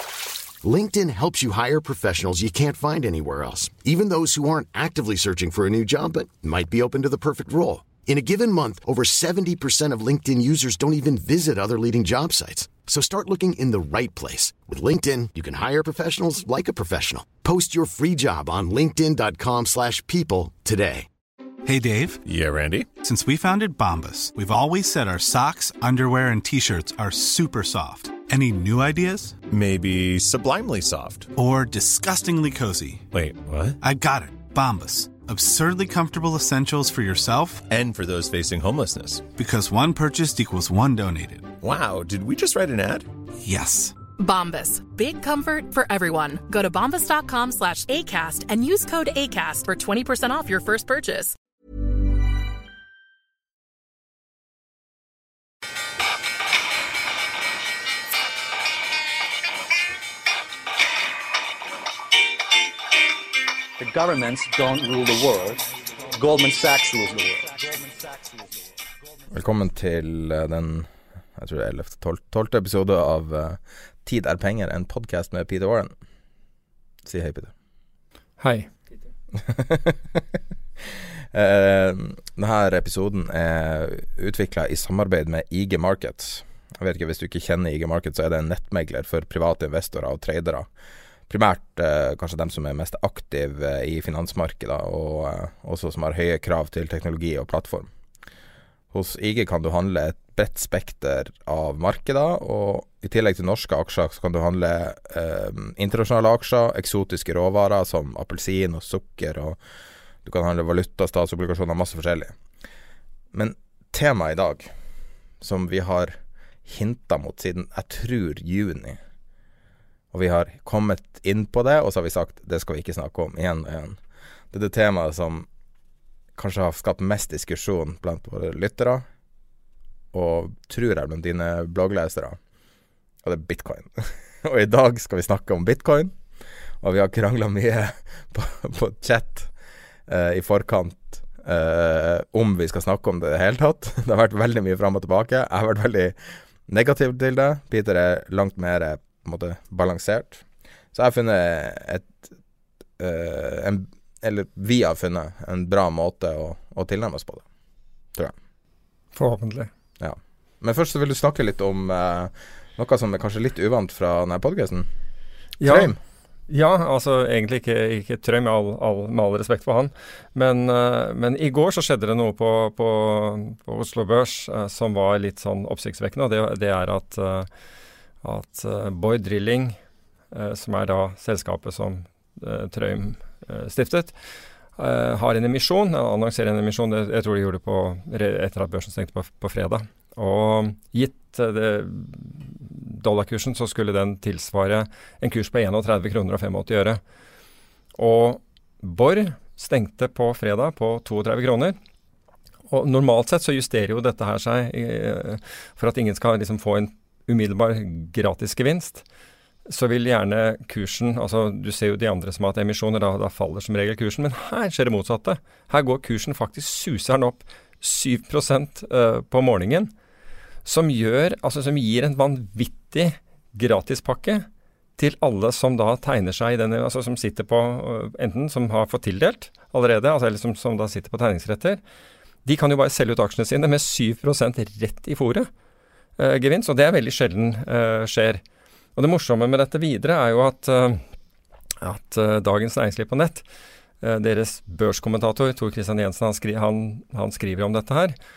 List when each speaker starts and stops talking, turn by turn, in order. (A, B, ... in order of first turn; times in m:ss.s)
0:00.6-0:21.1 A
0:21.6-0:22.2 B
0:22.2-0:22.9 C
0:23.0-0:29.4 B
0:29.5-0:31.3 C
0:31.3-0:33.1 B
0:33.1-0:33.8 C
0:33.8-0:37.6 B
0:37.7-0:39.2 C
0:39.3-0:41.5 B
0:41.6-0:43.1 C
0:43.4-0:43.9 B
0:44.2-0:51.3 D
1:03.8-1:08.5 E
1:09.3-1:15.9 F
1:17.0-1:17.5 F
1:18.4-1:18.7 G
1:19.3-1:30.7 F
1:31.3-1:37.9 F
1:38.9-1:49.6 F
1:50.2-1:52.4 F
1:53.3-1:54.7 F
1:55.4-1:59.0 F
2:00.1-2:04.0 F
2:04.5-2:05.5 F
2:06.4-2:09.0 F
2:10.1-2:12.4 F
2:13.2-2:16.2 F
2:16.8-2:19.5 F
2:20.1-2:32.3 F
2:33.0-2:37.4 F
2:39.1-2:39.7 G
2:40.0-2:44.9 F
2:45.6-2:45.9 G
2:45.6-2:46.0 F
2:46.5-2:57.5 G
2:58.2-2:59.8 G
3:00.3-3:04.1 G
3:04.8-3:17.0 G
3:18.0-3:21.8 G
3:22.7-3:29.0 G
3:29.7-3:39.9 G
3:40.6-3:51.8 G
3:52.4-3:55.5 G
3:56.2-3:58.4 G
3:59.0-4:01.0 G
4:01.8-4:03.4 G
4:04.0-4:08.2 G